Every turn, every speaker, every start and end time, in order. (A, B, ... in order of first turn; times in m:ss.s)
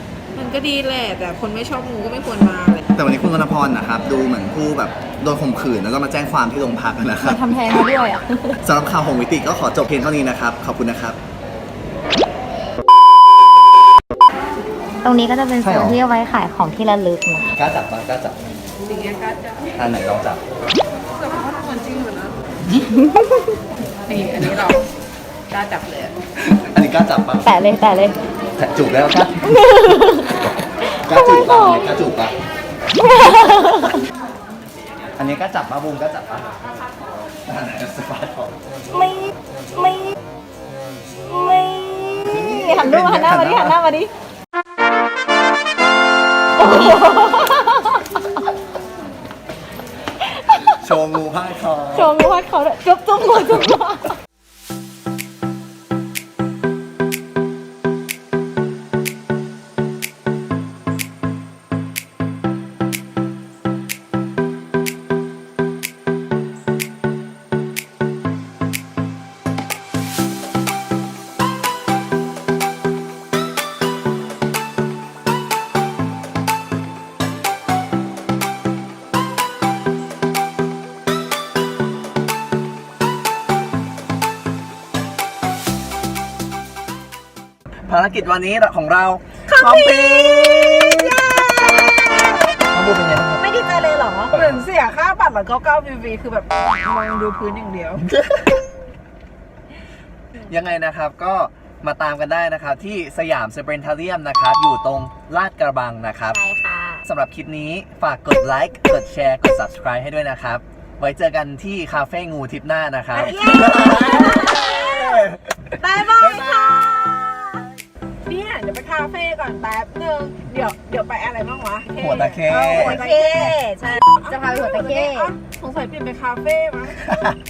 0:00.3-0:02.8 A
0:03.0-0:07.4 B
0:07.2-0:08.6 C
0:08.6-0:11.2 B
0:15.0-0:17.5 C
0:15.6-0:16.0 B
0:17.6-0:18.4 B
0:18.8-0:19.7 A
0:19.8-0:20.4 B
0:21.2-0:22.4 A
0:22.7-0:23.4 C
0:24.1-0:24.9 A
0:25.5-0:26.2 A
0:26.5-0:27.5 B
0:27.4-0:28.2 C
0:28.6-0:29.5 B
0:29.4-0:30.4 C
0:30.9-0:31.9 C
0:31.1-0:32.3 B
0:33.0-0:34.0 C
0:35.2-0:36.6 B
0:37.4-0:38.5 B
0:38.9-0:40.2 C
0:41.2-0:44.1 C
0:42.2-0:43.8 B
0:46.6-0:48.3 C
0:50.3-0:50.8 C
0:50.8-0:52.1 B
0:51.9-0:54.2 C
1:27.9-1:31.3 B
1:29.5-1:30.0 A
1:31.3-1:32.6 A
1:32.7-1:33.5 B
1:33.4-1:38.0 A
1:34.3-1:34.6 B
1:40.5-1:46.4 B
1:46.3-1:47.1 C
1:47.1-1:55.4 B
1:53.1-1:54.6 A
1:53.2-1:55.3 C
1:55.8-1:57.7 C
1:56.2-1:56.7 B
1:58.2-2:07.1 A
2:02.0-2:03.0 B
2:02.6-2:05.4 C